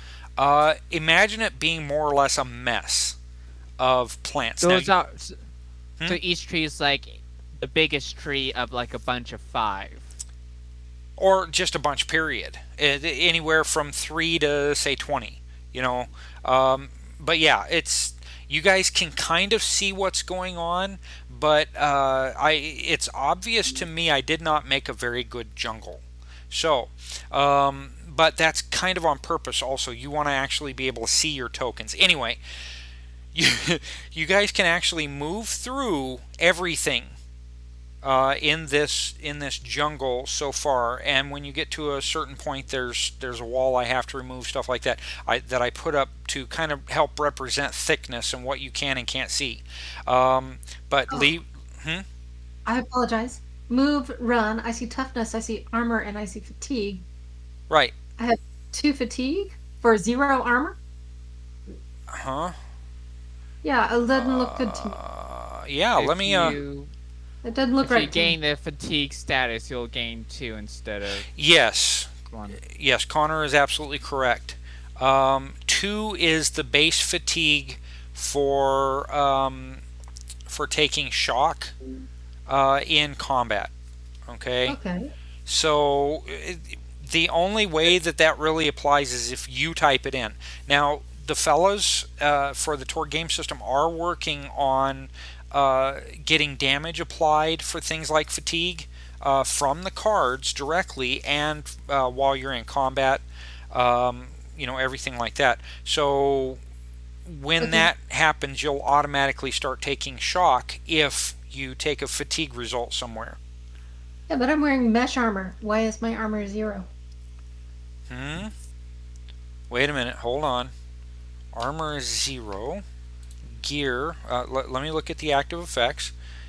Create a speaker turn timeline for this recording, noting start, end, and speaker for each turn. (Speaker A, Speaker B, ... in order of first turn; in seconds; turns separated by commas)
Speaker A: 0.4-3.2, Speaker A: 3.8-4.9, Speaker B: 4.6-5.4, Speaker B: 6.0-10.1, Speaker A: 11.2-32.4, Speaker A: 33.3-37.1, Speaker A: 38.0-52.0, Speaker C: 52.6-57.0, Speaker C: 58.2-60.8, Speaker A: 62.1-62.5, Speaker C: 63.6-65.0, Speaker A: 64.1-66.6, Speaker B: 66.0-66.9, Speaker C: 67.4-68.4, Speaker B: 67.8-71.3, Speaker A: 71.3-79.8, Speaker B: 72.3-72.6, Speaker A: 80.5-81.7, Speaker A: 82.5-83.7, Speaker A: 84.3-84.8, Speaker C: 84.7-85.1, Speaker A: 85.5-106.6, Speaker A: 107.2-113.4, Speaker C: 107.6-107.9, Speaker C: 114.3-116.9, Speaker A: 118.1-118.5, Speaker A: 119.7-120.7, Speaker A: 121.5-122.8, Speaker A: 123.6-126.1